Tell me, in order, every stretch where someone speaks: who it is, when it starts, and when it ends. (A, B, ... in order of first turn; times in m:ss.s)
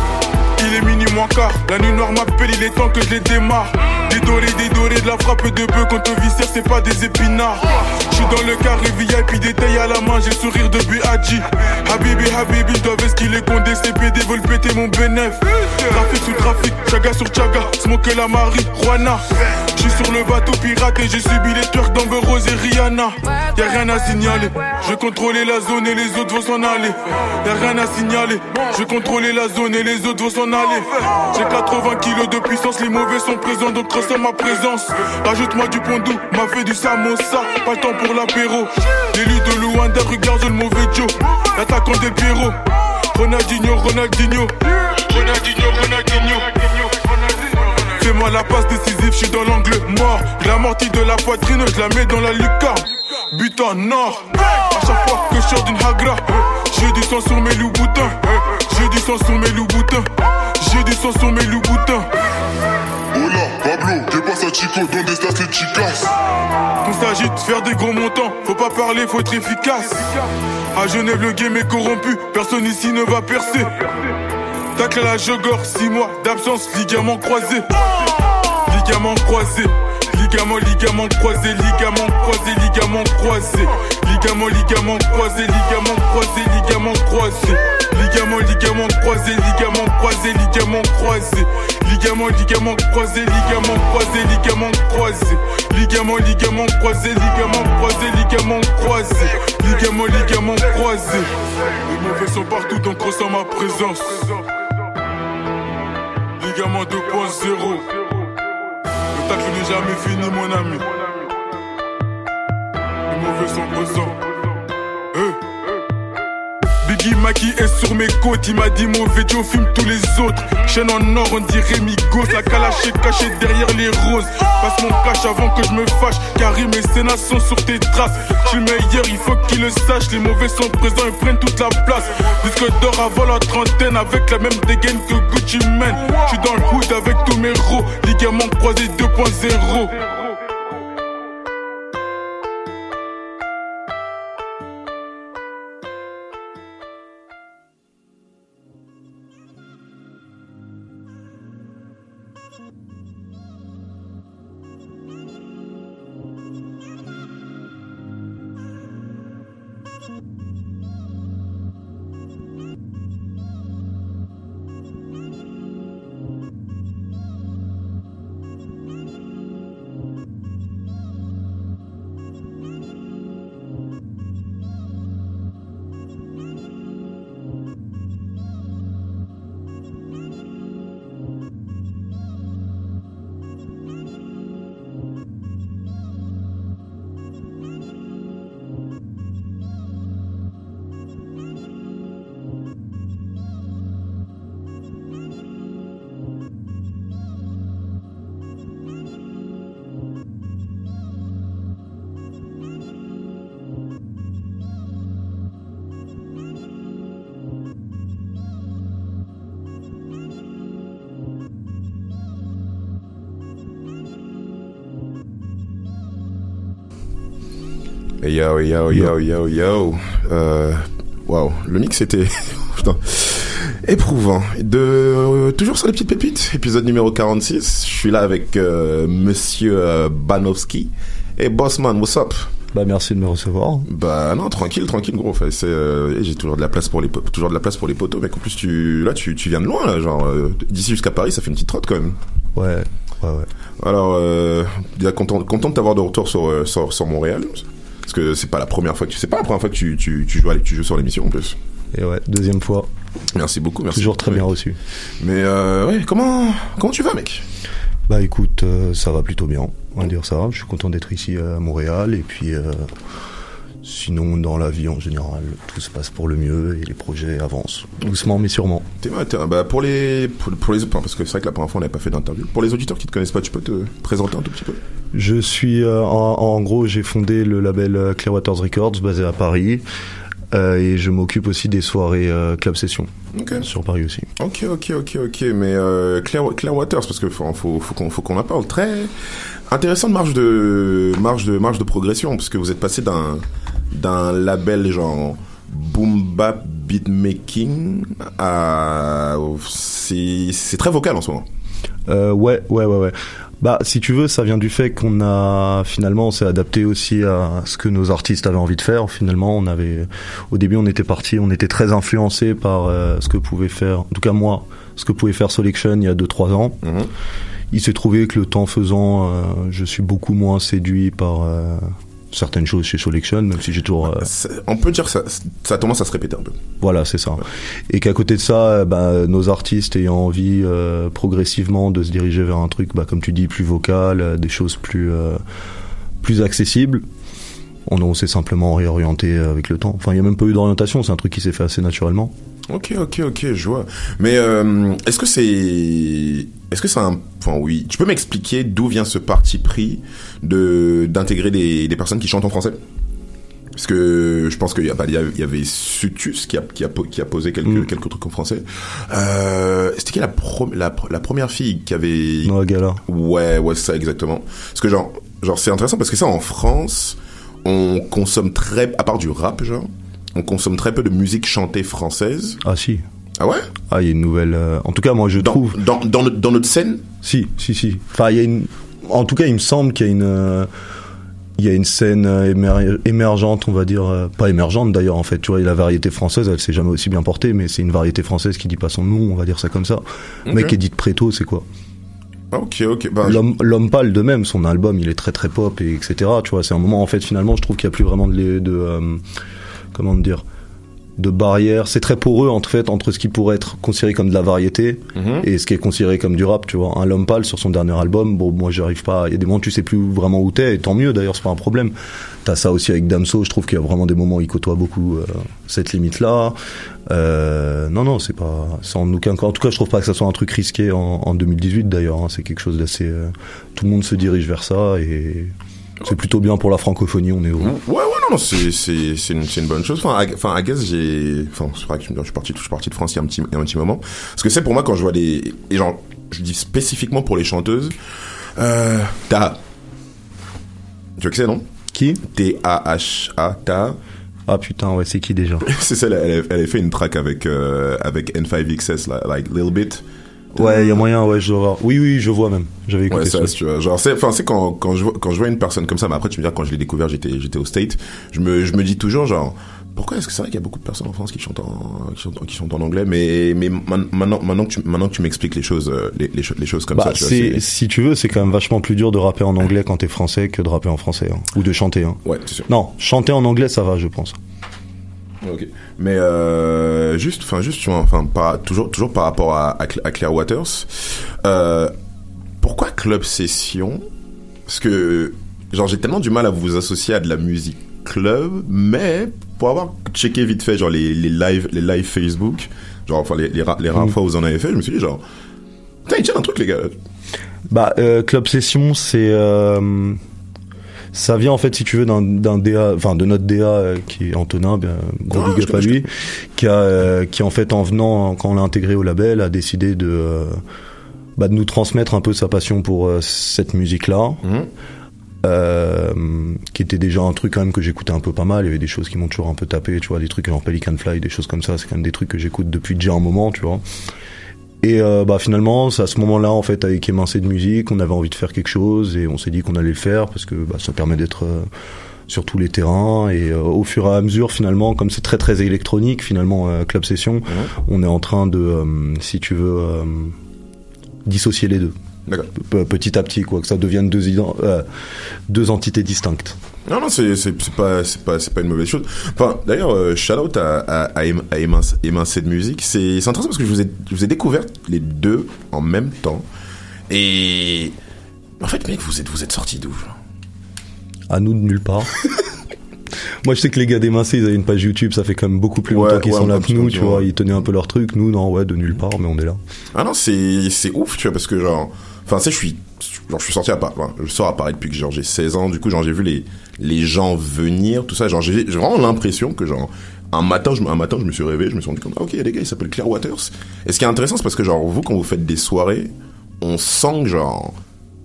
0:00.6-0:42.6 A
0:43.1-1:00.1 A
1:00.6-1:02.1 A
1:03.1-1:06.0 B
1:06.8-1:13.7 A
1:14.8-1:17.7 A
1:18.7-1:41.3 A
1:41.8-1:44.4 A
1:46.4-1:48.0 A
1:49.1-1:50.9 A
1:53.1-1:54.2 A
1:56.8-2:20.2 A
3:38.2-3:52.5 C
3:52.7-3:53.8 D
3:53.9-4:02.2 C
4:02.6-4:03.5 D
4:03.8-4:11.6 C
4:11.9-4:12.9 D
4:13.3-4:14.5 C
4:13.9-4:14.8 D
4:15.2-4:17.4 C
4:18.1-4:22.9 D
4:23.8-4:28.8 D
4:29.0-4:34.8 C
4:35.1-4:39.8 D
4:40.5-4:44.2 D
4:43.3-4:43.7 C
4:44.4-4:49.1 C
4:49.7-5:01.4 C
5:02.1-5:16.8 D
5:16.8-5:17.1 C
5:17.7-5:24.2 D
5:24.0-5:26.6 C
5:26.8-5:35.4 D
5:36.2-5:37.0 D
5:37.9-5:42.3 D
5:42.7-5:52.8 C
5:53.8-6:02.5 C
6:02.4-6:03.0 D
6:03.1-6:12.6 C
6:12.6-6:13.0 D
6:13.4-6:13.6 C
6:13.9-6:15.8 D
6:15.4-6:17.0 C
6:17.2-6:20.7 D
6:21.6-6:31.6 D
6:30.4-6:30.8 C
6:32.5-6:33.4 C
6:33.2-6:39.2 D
6:39.9-6:40.4 D
6:41.2-6:51.9 D
6:45.1-6:45.4 C
6:52.4-6:56.6 D
6:57.1-7:05.5 D
7:06.0-7:07.7 D
7:07.6-7:18.0 C
7:18.6-7:19.6 C
7:21.2-7:21.6 C
7:21.9-7:22.2 D
7:22.2-7:24.0 C
7:24.5-7:25.6 D
7:25.6-7:31.1 C
7:30.6-7:33.5 D
7:33.1-7:47.6 C
7:46.9-7:54.4 D
7:52.2-7:52.7 C
7:55.4-8:00.9 C
8:01.4-8:01.9 C
8:02.6-8:04.0 C
8:04.7-8:15.2 C
8:16.1-8:16.9 C
8:17.7-8:20.2 D
8:21.1-8:30.6 D
8:25.3-8:26.0 C
8:31.4-8:34.4 D
8:34.4-8:34.7 C
8:35.4-8:43.8 D
8:44.8-8:51.7 D
8:52.3-9:00.3 D
9:01.2-9:01.9 D
9:02.5-9:04.8 D
9:05.5-9:06.6 D
9:06.8-9:16.4 C
9:17.1-9:17.9 C
9:18.6-9:20.1 C
9:21.3-9:22.1 D
9:23.4-9:29.6 D
9:25.9-9:27.3 C
9:29.9-9:47.8 C